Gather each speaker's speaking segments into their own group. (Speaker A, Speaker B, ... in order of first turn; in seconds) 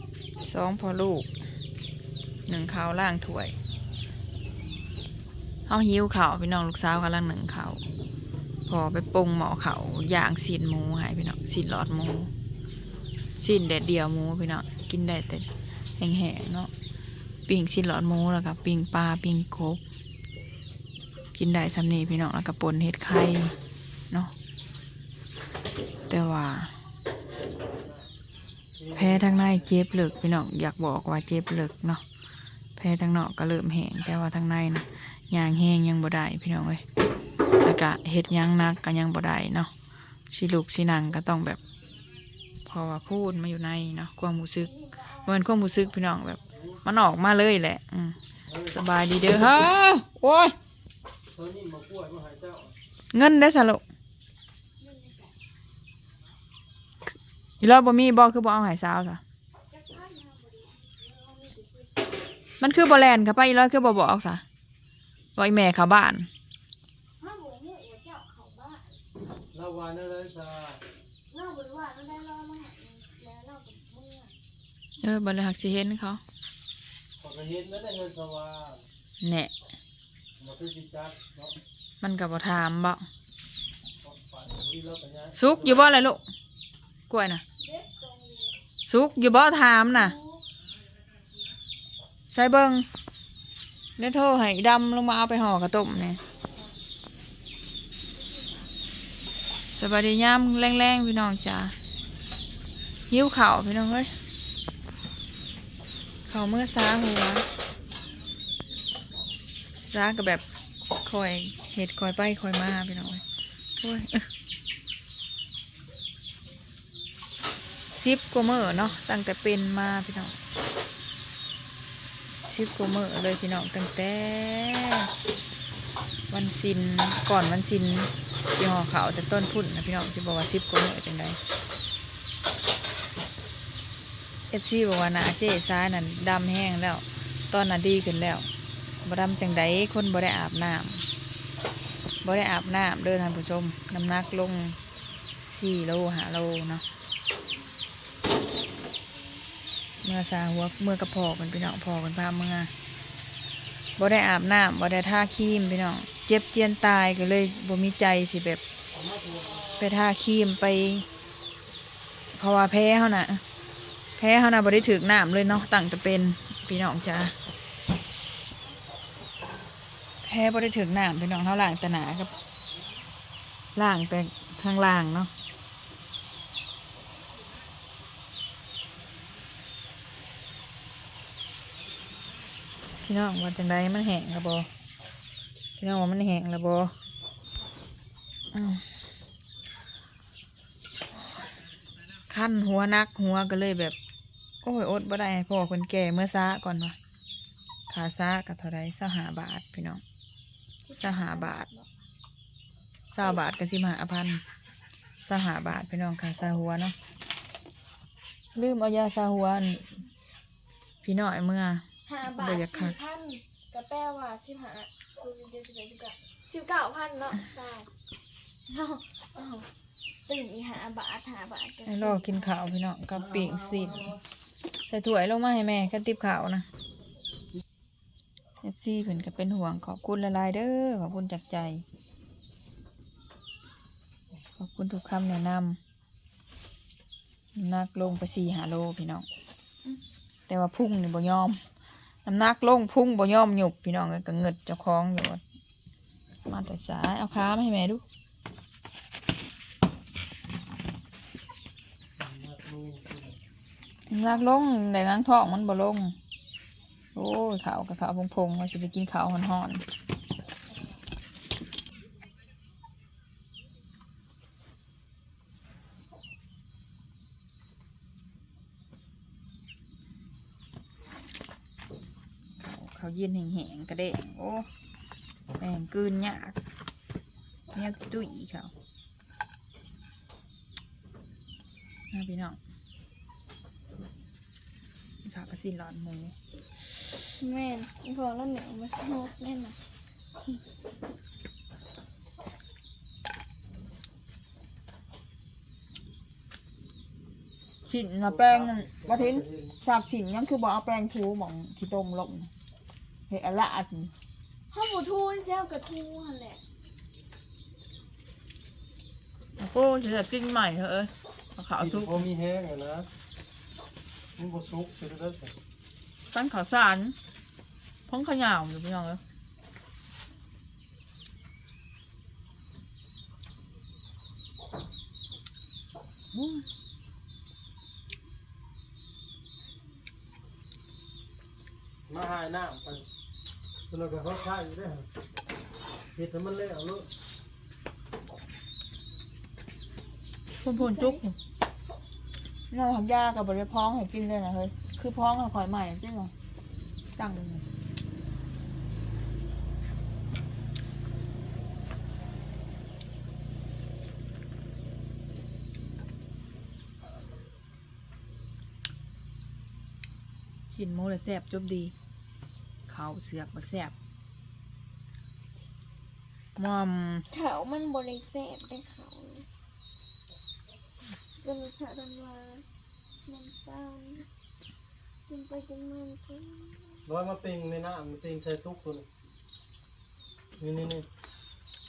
Speaker A: 0.4-1.4, 2.5-3.5, 5.7-7.8, 8.7-12.3, 13.4-16.7, 17.5-19.8, 21.4-23.6, 26.1-26.7, 28.9-32.0, 32.8-36.8, 37.5-39.7, 40.3-41.6, 42.6-50.6, 53.1-53.8, 57.6-59.2, 62.6-64.4, 65.4-66.3, 75.0-76.2, 79.2-79.5, 82.0-83.1, 85.3-86.3, 87.1-87.4, 88.8-90.2, 92.3-92.9, 94.0-96.2, 99.7-101.8, 103.1-104.1, 106.3-107.5, 109.8-113.2, 113.8-114.3, 117.9-120.4, 122.5-125.1, 126.3-131.4, 134.5-138.5, 139.0-141.1, 142.2-144.8, 145.4-146.8, 150.0-152.7, 154.0-158.6, 159.8-161.1, 162.3-163.4, 164.2-167.3, 170.2-172.3, 173.8-175.3, 183.0-184.7, 185.8-186.9, 188.5-188.9, 192.3-194.0, 194.6-197.0, 197.9-200.0, 201.0-201.7, 203.1-204.4, 205.2-207.0, 208.6-210.0, 211.0-213.0, 221.8-224.2, 224.9-226.7, 228.6-231.8, 234.6-235.8, 237.6-239.3, 240.5-241.6, 242.2-245.4, 246.5-248.0, 254.1-256.2, 257.1-259.9, 272.6-274.7, 275.6-276.6, 277.7-278.7, 282.1-282.6, 285.2-286.4, 297.9-302.5, 303.3-304.1, 309.6-312.3, 316.3-317.2, 318.1-319.2, 326.3-326.6, 340.6-341.4, 342.7-346.3, 347.2-347.6, 360.7-361.9, 362.9-363.9, 366.6-367.3
Speaker B: 27.5-28.1, 28.8-29.8, 48.5-48.8, 51.3-52.8, 69.5-70.8, 77.2-78.9, 80.4-81.6, 84.0-85.9, 159.0-159.7, 252.2-253.4, 298.3-299.8, 311.8-313.1, 314.4-315.6, 332.1-333.1, 333.9-335.1, 336.1-337.1, 377.1-379.1, 380.6-381.1
Speaker C: 44.6-45.8, 54.8-55.3, 59.7-62.2, 67.2-69.0, 71.3-74.3, 87.6-88.6, 89.9-90.5, 98.2-98.7, 200.9-201.9, 212.1-217.9, 218.7-219.7, 220.3-222.6, 287.2-289.8, 304.7-306.6, 340.6-341.2, 367.3-369.5, 371.4-372.6, 373.2-374.3, 375.3-377.1